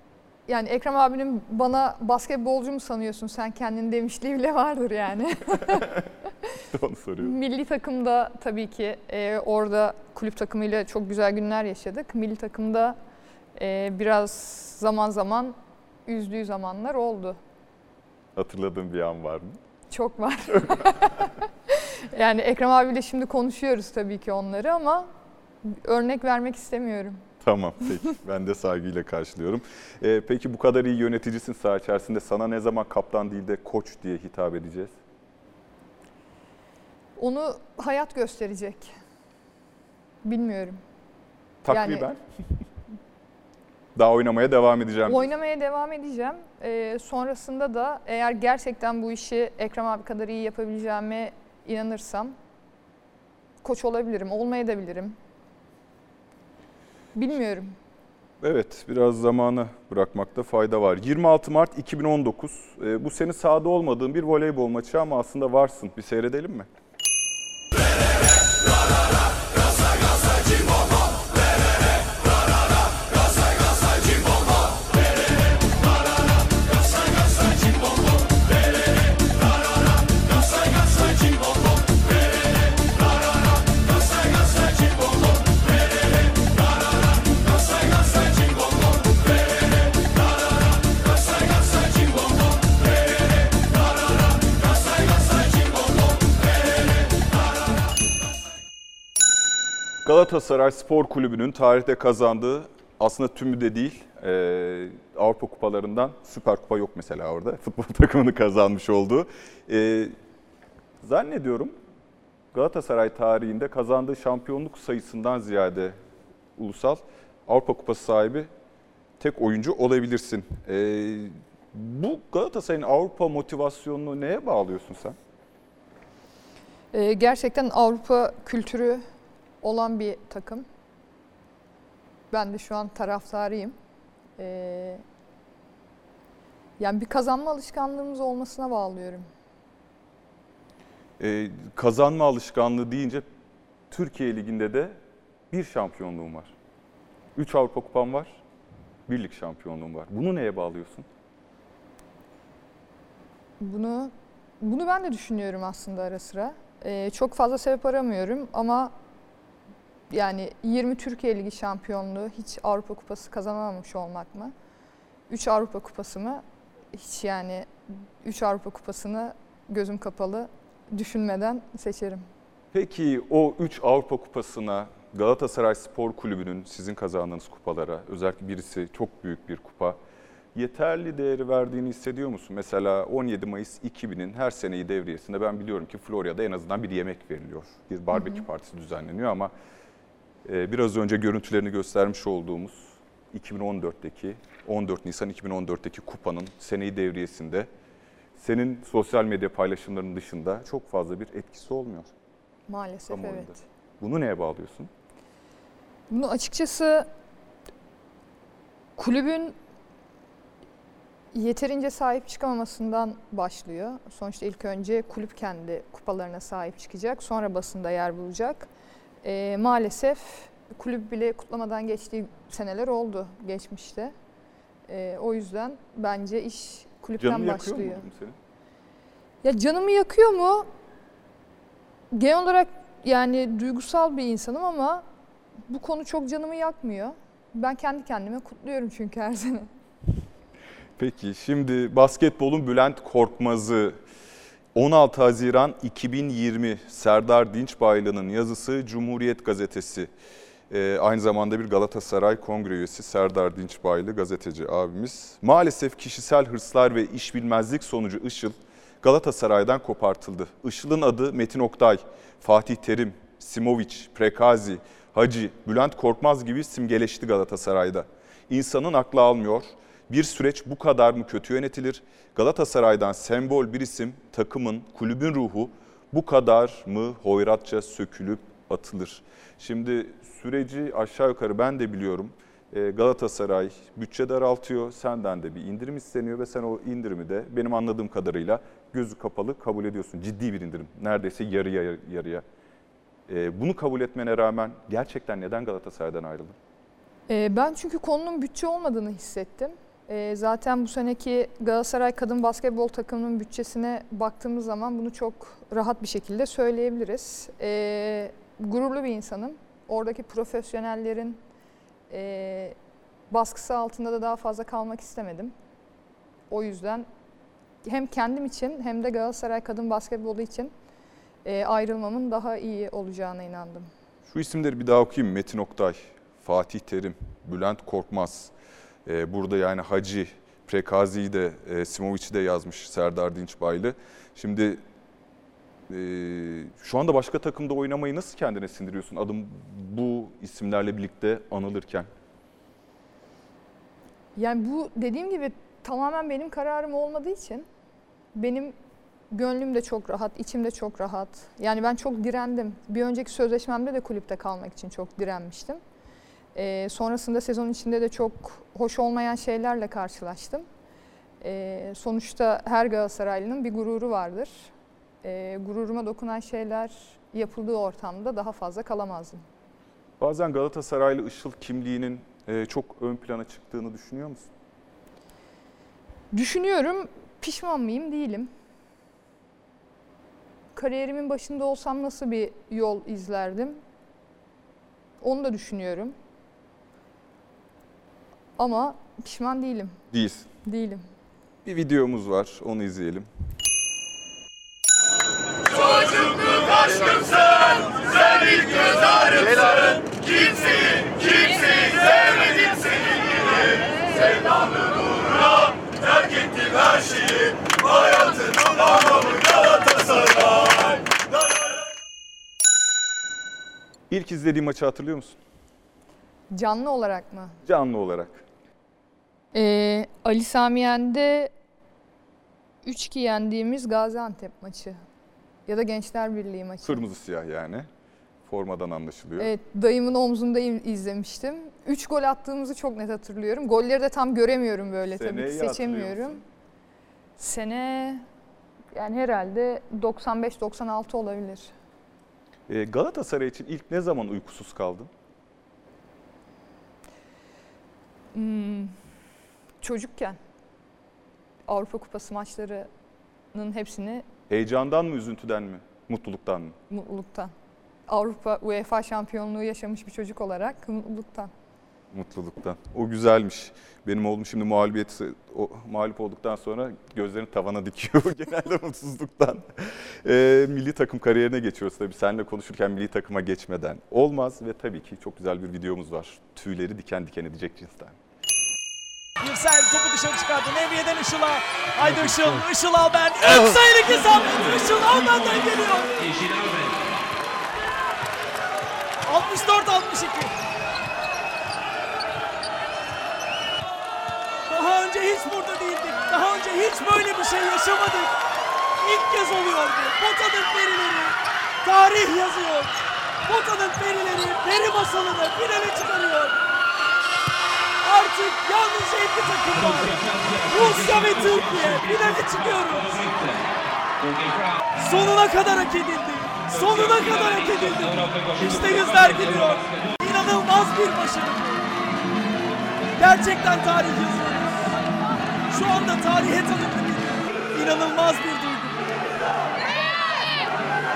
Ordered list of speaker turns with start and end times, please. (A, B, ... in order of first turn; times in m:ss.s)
0:00.5-0:05.9 A
0:06.7-0:07.3 B
0:07.2-0:13.0 A
0:13.6-0:17.4 A
0:18.4-0:19.6 B
0:19.9-0:25.1 A
0:25.6-0:27.2 A
0:27.4-0:35.0 B
0:37.2-0:38.9 A
0:40.2-0:40.8 A
0:41.6-0:42.2 B
0:41.7-0:42.1 A
0:44.0-0:45.3 B
0:45.1-0:52.4 A
0:53.6-0:55.2 A
0:57.2-0:57.7 A
0:58.4-1:06.7 B
1:40.0-1:50.1 B
1:51.0-1:51.7 B
1:52.5-1:56.0 B
1:56.6-1:58.5 B
1:59.2-2:05.2 B
2:06.9-2:09.0 A
2:09.6-2:10.6 A
2:12.3-2:13.8 A
2:14.4-2:15.0 A
2:16.8-2:19.3 A
2:21.2-2:23.3 B
2:23.9-2:25.0 B
2:25.5-2:26.5 B
2:27.4-2:28.4 B
2:29.1-2:31.1 B
2:33.6-2:38.9 A
2:40.1-2:44.5 A
2:45.3-2:46.4 A
2:46.9-2:47.7 A
2:48.2-2:52.2 A
2:52.7-3:00.0 B
3:00.6-3:09.5 B
3:08.1-3:08.4 A
3:10.4-3:17.7 B
3:18.4-3:22.1 B
3:22.7-3:23.6 A
3:23.1-3:24.9 B
3:26.1-3:27.1 A
3:29.0-3:29.6 A
3:31.3-3:38.7 A
3:39.2-3:44.1 A
3:44.9-3:48.1 A
3:47.2-3:48.4 B
3:49.4-3:50.7 A
3:52.1-3:55.0 A
3:55.7-3:59.7 A
4:01.0-4:04.0 B
4:04.8-4:10.1 B
4:10.7-4:52.4 B
4:53.3-4:56.6 B
4:57.3-5:11.4 A
5:12.1-5:12.8 A
5:13.3-5:15.5 A
5:16.5-5:17.1 A
5:17.8-5:20.7 A
5:21.4-5:23.9 A
5:24.3-5:28.5 B
5:29.1-5:34.8 B
5:35.9-5:42.1 B
5:44.4-5:47.7 A
5:48.4-5:48.8 A
5:49.3-5:55.8 A
5:56.6-6:00.7 A
6:01.4-6:04.7 A
6:05.2-6:09.4 A
6:10.2-6:14.5 B
6:16.3-6:18.5 A
6:20.8-6:23.8 A
6:25.2-6:26.2 A
6:28.6-6:30.0 A
6:30.1-6:30.5 B
6:30.6-6:31.0 A
6:31.6-6:33.3 B
6:54.1-6:55.4 B
6:56.5-6:57.6 A
6:57.6-6:58.4 B
6:59.5-7:01.5 A
7:02.8-7:05.0 A
7:05.7-7:07.0 A
7:06.8-7:07.9 B
7:08.5-7:09.5 B
7:09.4-7:16.4 A
7:15.2-7:16.4 B
7:17.4-7:18.2 A
7:18.9-7:21.7 A
7:22.7-7:25.1 B
7:28.3-7:29.0 A
7:29.8-7:30.4 A
7:31.7-7:32.9 A
7:33.5-7:34.2 A
7:34.5-7:36.8 B
7:36.9-7:37.5 A
7:38.1-7:41.5 A
7:42.1-7:58.2 B
7:59.4-8:06.3 C
8:09.3-8:10.5 C
8:14.7-8:18.3 C
8:19.0-8:22.9 C
8:23.5-8:26.6 C
8:28.0-8:33.6 C
8:35.0-8:41.8 C
8:43.2-8:44.9 C
8:45.7-8:49.1 C